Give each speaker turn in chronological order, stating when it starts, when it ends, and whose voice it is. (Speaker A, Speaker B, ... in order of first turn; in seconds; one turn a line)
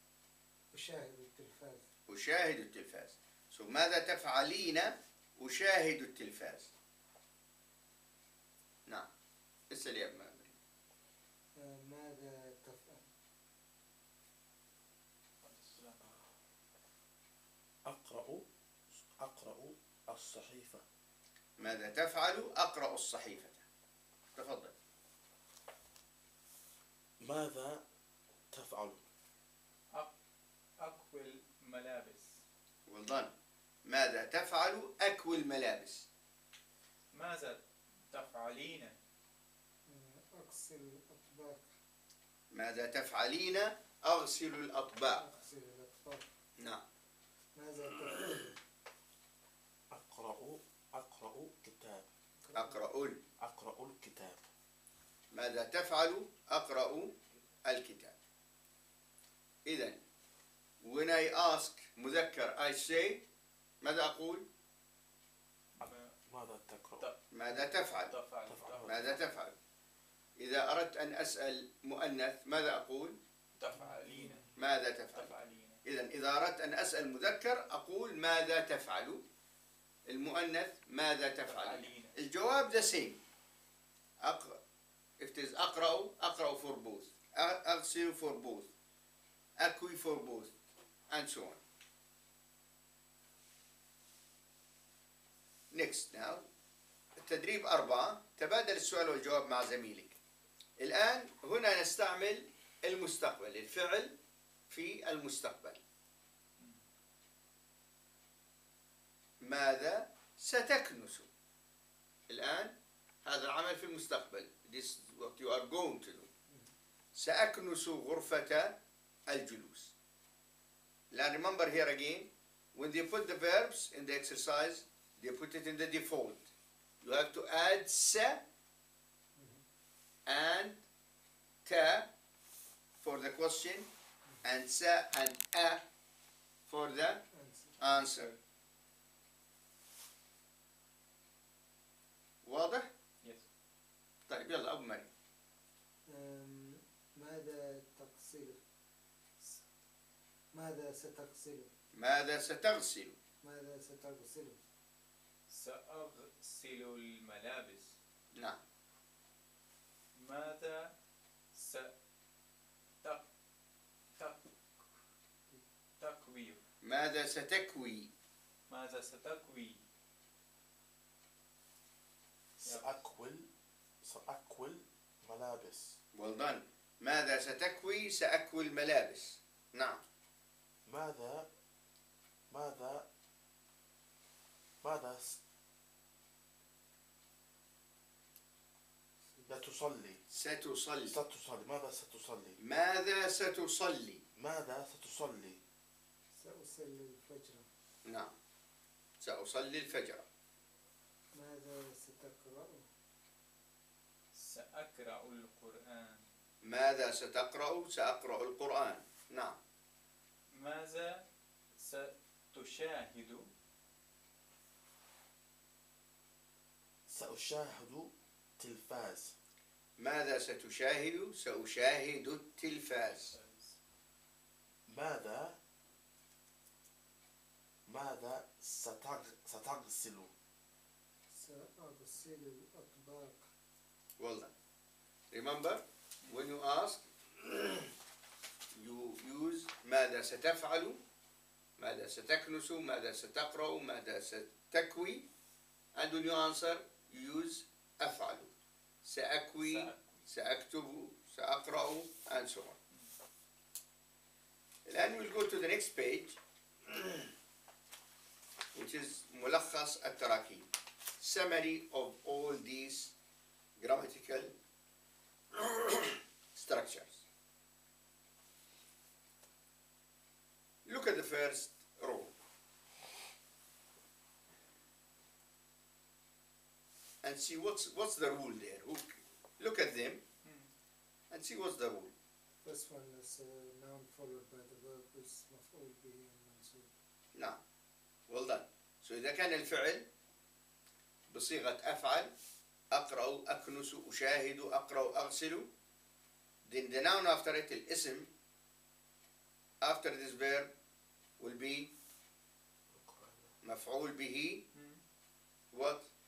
Speaker A: 0.7-1.8
Speaker B: 2.1-6.7
Speaker B: 9.7-10.6
Speaker A: 11.6-13.1
Speaker C: 15.4-16.0
Speaker D: 17.9-18.4
Speaker D: 19.2-20.8
Speaker B: 21.6-23.6
Speaker C: 21.6-21.9
Speaker B: 24.4-24.7
Speaker D: 27.2-27.8
Speaker D: 28.5-29.0
Speaker C: 30.8-32.4
Speaker B: 32.9-33.3
Speaker B: 33.9-36.1
Speaker C: 37.1-37.6
Speaker C: 38.1-38.9
Speaker A: 39.9-41.7
Speaker B: 42.5-45.2
Speaker A: 45.2-46.3
Speaker B: 46.6-46.8
Speaker A: 47.5-48.6
Speaker D: 49.9-52.1
Speaker A: 52.4-52.8
Speaker B: 52.5-53.2
Speaker D: 53.4-54.4
Speaker B: 55.3-58.1
Speaker B: 59.6-60.0
Speaker B: 60.8-63.2
Speaker B: 63.8-64.4
Speaker C: 65.8-66.1
Speaker D: 65.8-67.1
Speaker C: 67.0-69.2
Speaker B: 67.3-68.1
Speaker D: 68.5-69.1
Speaker B: 68.9-69.5
Speaker B: 70.4-73.2
Speaker C: 73.5-74.4
Speaker A: 73.8-74.5
Speaker B: 74.5-75.3
Speaker C: 75.1-75.8
Speaker B: 75.8-79.2
Speaker B: 80.1-83.2
Speaker C: 81.4-82.1
Speaker B: 84.2-84.5
Speaker B: 85.2-88.7
Speaker B: 89.6-90.5
Speaker B: 91.1-91.6
Speaker B: 95.7-96.4
Speaker B: 97.2-100.2
Speaker B: 100.8-104.1
Speaker B: 104.7-105.8
Speaker B: 109.4-111.3
Speaker B: 112.3-116.3
Speaker B: 117.2-118.8
Speaker B: 119.3-119.9
Speaker B: 121.1-126.5
Speaker B: 127.0-128.4
Speaker A: 129.3-129.6
Speaker B: 130.2-130.8
Speaker B: 131.6-132.1
Speaker B: 133.0-133.9
Speaker B: 134.4-135.8
Speaker B: 136.7-137.2
Speaker A: 137.3-137.8
Speaker B: 137.8-138.3
Speaker C: 137.9-138.4
Speaker B: 142.4-142.9
Speaker B: 144.3-145.1
Speaker A: 146.1-148.6
Speaker A: 150.5-151.7
Speaker B: 151.9-153.2
Speaker A: 153.4-154.6
Speaker C: 155.5-157.9
Speaker C: 160.1-160.9
Speaker C: 161.5-161.9
Speaker C: 164.1-164.5
Speaker C: 166.0-166.6
Speaker B: 166.8-168.1
Speaker C: 168.7-169.8
Speaker D: 172.6-173.5
Speaker C: 172.6-173.0
Speaker D: 174.0-176.0
Speaker B: 176.1-180.0
Speaker D: 180.8-181.5
Speaker D: 182.5-183.1
Speaker D: 184.8-185.4
Speaker A: 189.3-189.6
Speaker D: 189.5-190.2
Speaker B: 190.3-191.2
Speaker D: 191.1-192.6
Speaker B: 192.6-194.2
Speaker D: 194.3-195.6
Speaker A: 196.3-197.7
Speaker B: 198.0-198.3
Speaker B: 199.2-200.2
Speaker A: 201.3-202.8
Speaker C: 204.3-206.2
Speaker B: 206.6-209.6
Speaker C: 210.5-211.2
Speaker C: 211.8-213.5
Speaker D: 217.1-219.3
Speaker B: 220.0-223.3
Speaker C: 222.9-223.8
Speaker D: 224.9-225.6
Speaker D: 227.9-230.3
Speaker A: 231.3-233.5
Speaker B: 234.2-234.5
Speaker B: 235.3-237.9
Speaker B: 238.7-241.0
Speaker B: 241.8-245.2
Speaker B: 245.9-248.5
Speaker B: 249.0-252.8
Speaker C: 249.6-250.2
Speaker B: 254.8-257.3
Speaker B: 258.7-260.7
Speaker B: 261.2-263.1
Speaker B: 263.8-264.5
Speaker B: 265.5-267.2
Speaker B: 270.9-272.3
Speaker B: 277.2-280.2
Speaker C: 280.4-280.7
Speaker B: 281.3-282.1
Speaker A: 282.6-286.9
Speaker B: 288.3-290.0
Speaker B: 291.3-292.3
Speaker B: 292.9-295.7
Speaker B: 296.6-298.3
Speaker B: 299.8-300.7
Speaker B: 301.4-301.9
Speaker D: 302.9-303.5
Speaker B: 303.6-304.6
Speaker C: 304.7-305.0
Speaker B: 305.7-306.1